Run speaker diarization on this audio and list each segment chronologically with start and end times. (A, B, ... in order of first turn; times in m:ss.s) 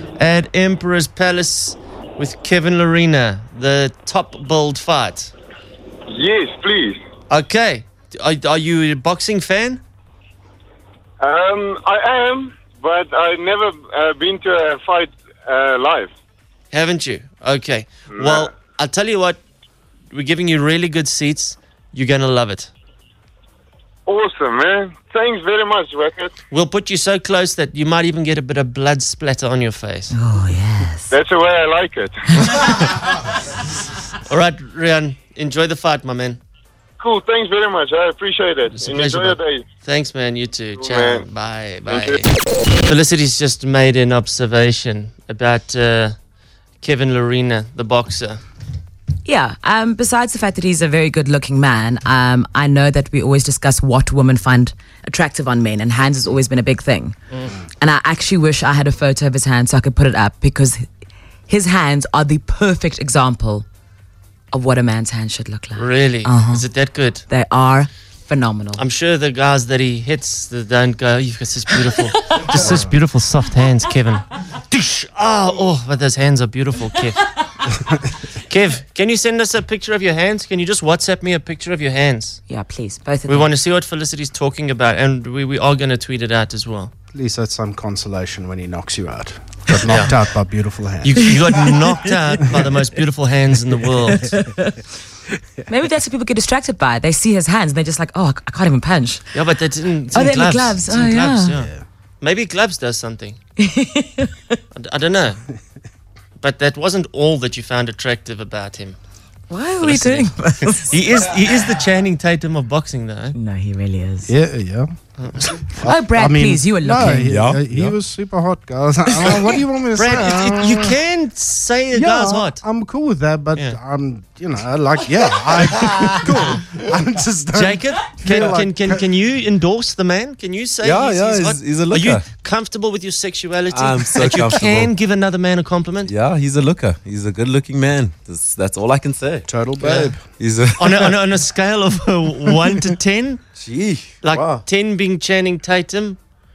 0:00.2-0:05.3 A
0:06.1-0:07.0 B
0:07.3-0:09.8 A
0:11.2-0:16.1 B
0:16.7-0:19.4 A
0:18.1-0:18.5 B
0:20.1-0:22.7 A
0:24.1-0:26.3 B
0:26.5-0:30.1 A
0:30.1-0:31.1 C
0:31.1-0:32.2 B
0:34.3-0:36.4 A
0:37.0-0:39.6 B
0:38.7-0:42.3 A
0:40.8-0:41.2 B
0:41.9-0:42.2 B
0:42.8-0:46.2 A
0:46.8-0:48.4 A
0:49.2-0:57.2 C
0:57.8-1:00.9 C
1:01.5-1:03.7 C
1:04.5-1:06.7 C
1:05.8-1:07.2 A
1:07.3-1:08.8 C
1:08.8-1:17.2 A
1:12.6-1:12.9 D
1:18.5-1:22.4 A
1:22.5-1:23.5 C
1:23.3-1:26.9 A
1:27.1-1:31.7 D
1:29.9-1:30.2 A
1:31.0-1:34.4 A
1:35.7-1:39.3 C
1:39.3-1:43.4 A
1:40.1-1:41.6 C
1:41.6-1:41.8 D
1:43.6-1:44.5 C
1:44.7-1:45.4 A
1:46.4-1:49.0 A
1:49.5-1:50.9 C
1:49.8-1:53.4 A
1:53.3-1:54.3 C
1:54.3-1:54.9 D
1:55.2-1:55.5 A
1:55.8-2:01.0 D
1:55.8-1:57.4 C
1:57.2-1:58.0 E
2:00.0-2:02.6 A
2:01.9-2:09.0 D
2:07.6-2:16.1 A
2:10.8-2:12.2 E
2:13.7-2:14.9 E
2:16.0-2:19.5 E
2:19.5-2:20.2 D
2:19.8-2:20.2 A
2:20.3-2:21.1 E
2:20.8-2:23.4 A
2:23.6-2:24.6 E
2:24.2-2:26.2 A